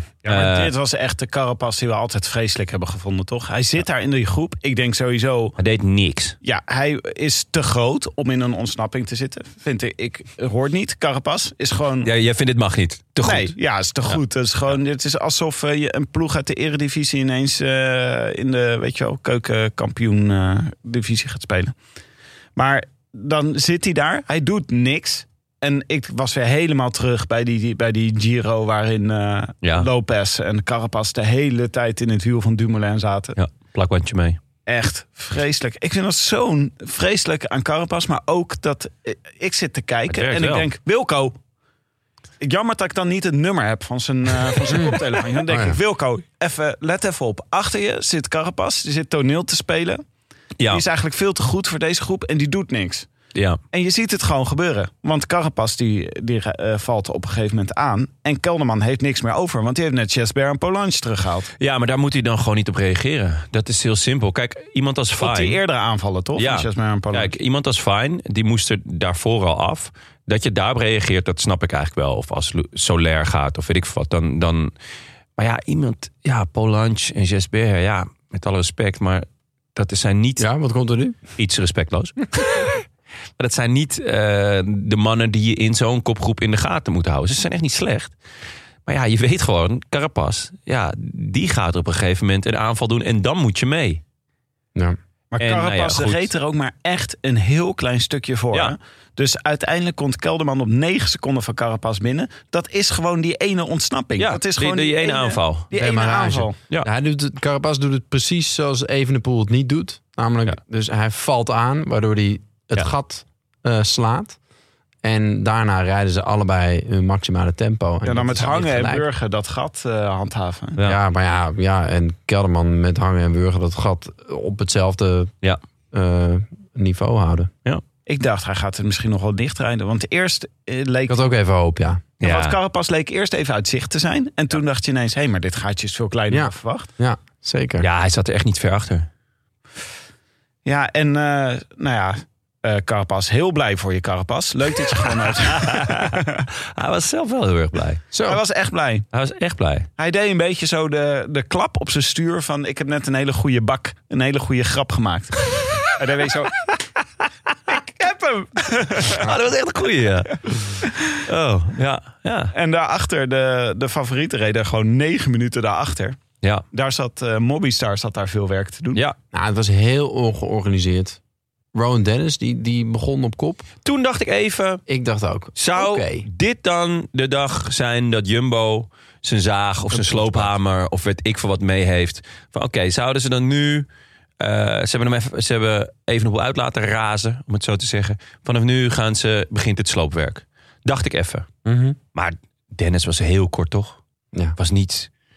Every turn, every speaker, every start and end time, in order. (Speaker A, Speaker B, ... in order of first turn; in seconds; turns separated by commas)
Speaker A: 0.2-5.6, Speaker B: 0.2-0.7, Speaker B: 5.6-6.4, Speaker A: 6.4-12.1, Speaker B: 12.0-13.5, Speaker A: 13.2-21.7, Speaker A: 22.6-33.4, Speaker B: 29.6-29.9, Speaker B: 33.4-34.4, Speaker A: 34.7-41.4, Speaker B: 40.1-40.7, Speaker A: 42.4-50.0, Speaker C: 44.7-45.8, Speaker B: 50.6-50.8, Speaker A: 50.7-53.1, Speaker A: 53.7-61.5, Speaker B: 61.6-65.6, Speaker A: 65.2-67.3, Speaker B: 66.4-74.7, Speaker B: 75.4-80.5, Speaker C: 80.4-81.2, Speaker B: 81.4-82.8, Speaker B: 83.4-88.2, Speaker B: 88.9-94.0, Speaker A: 95.3-106.6, Speaker B: 95.4-96.3, Speaker B: 104.2-105.7, Speaker C: 105.7-114.4, Speaker C: 115.0-119.1, Speaker A: 118.0-120.8, Speaker C: 120.8-125.3, Speaker C: 125.9-127.5, Speaker A: 128.1-131.2, Speaker C: 131.1-132.0, Speaker B: 132.2-132.6, Speaker A: 132.2-136.9, Speaker C: 136.3-137.9, Speaker B: 137.8-139.1, Speaker A: 140.7-146.5, Speaker B: 145.5-148.0, Speaker C: 148.1-148.4, Speaker A: 148.3-149.1, Speaker B: 149.1-149.9, Speaker A: 150.0-156.8, Speaker A: 157.7-159.3, Speaker B: 159.0-162.5, Speaker A: 160.8-161.1, Speaker A: 162.5-166.2, Speaker A: 166.7-169.0, Speaker C: 169.3-171.2, Speaker C: 171.7-173.7, Speaker B: 173.8-174.8, Speaker C: 174.9-176.3, Speaker B: 175.6-183.9, Speaker B: 184.4-191.5, Speaker C: 191.7-192.0, Speaker B: 192.2-194.0, Speaker B: 194.6-195.1